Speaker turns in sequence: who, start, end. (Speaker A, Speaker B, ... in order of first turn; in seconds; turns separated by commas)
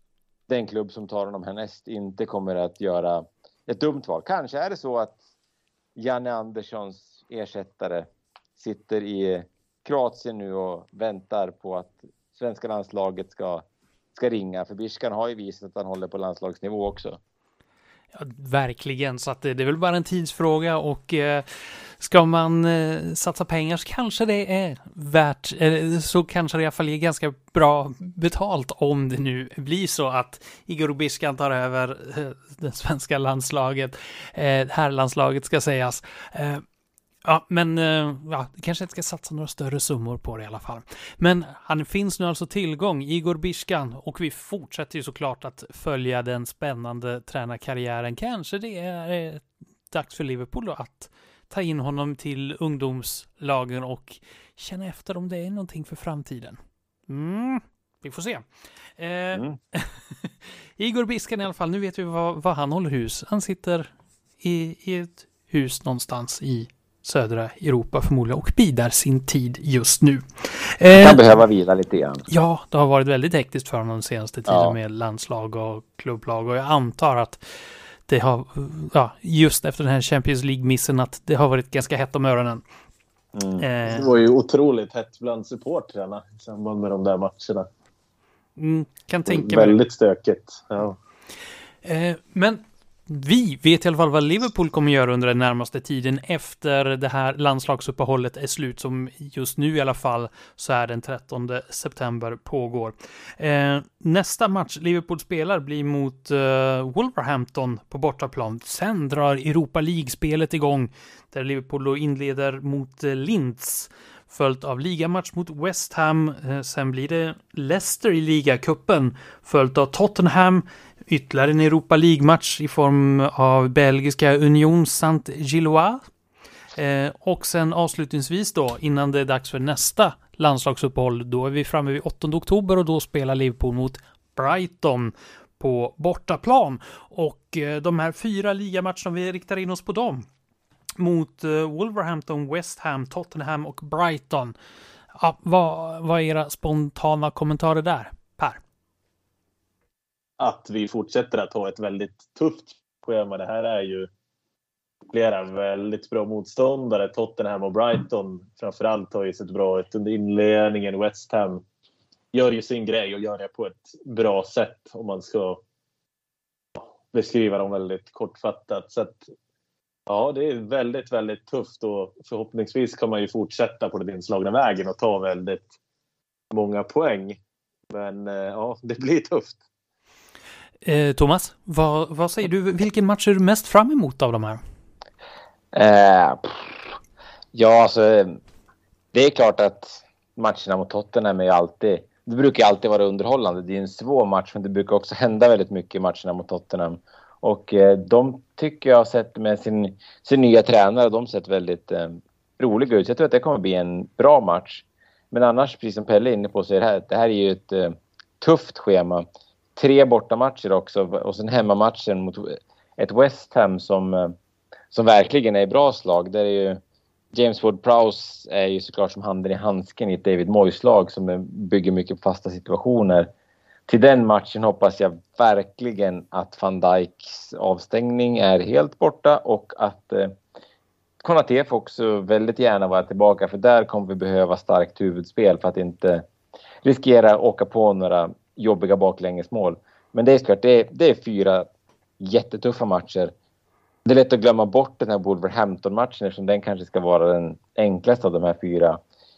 Speaker A: 0.5-5.2, Speaker A: 6.0-17.2, Speaker B: 18.1-36.6, Speaker B: 37.2-58.5, Speaker B: 59.0-71.2, Speaker A: 70.9-72.2, Speaker B: 72.3-77.4, Speaker A: 74.5-74.8, Speaker B: 78.1-82.6, Speaker A: 83.3-83.6, Speaker B: 83.6-84.1, Speaker C: 83.8-87.7, Speaker B: 88.6-89.8, Speaker C: 89.3-91.0, Speaker B: 91.8-126.0, Speaker B: 126.8-140.2, Speaker B: 141.0-144.5, Speaker B: 145.1-148.6, Speaker C: 150.4-154.1, Speaker C: 155.1-161.6, Speaker C: 162.3-165.6, Speaker C: 166.8-169.3, Speaker C: 170.1-175.7, Speaker C: 176.5-177.4, Speaker C: 177.9-179.6, Speaker B: 180.8-184.6, Speaker A: 185.7-186.9, Speaker A: 187.5-188.4, Speaker A: 189.1-214.3, Speaker A: 214.9-216.8, Speaker A: 217.3-223.3, Speaker A: 223.9-230.4, Speaker A: 231.2-236.2, Speaker A: 236.8-241.7, Speaker A: 242.2-243.3, Speaker A: 244.0-249.0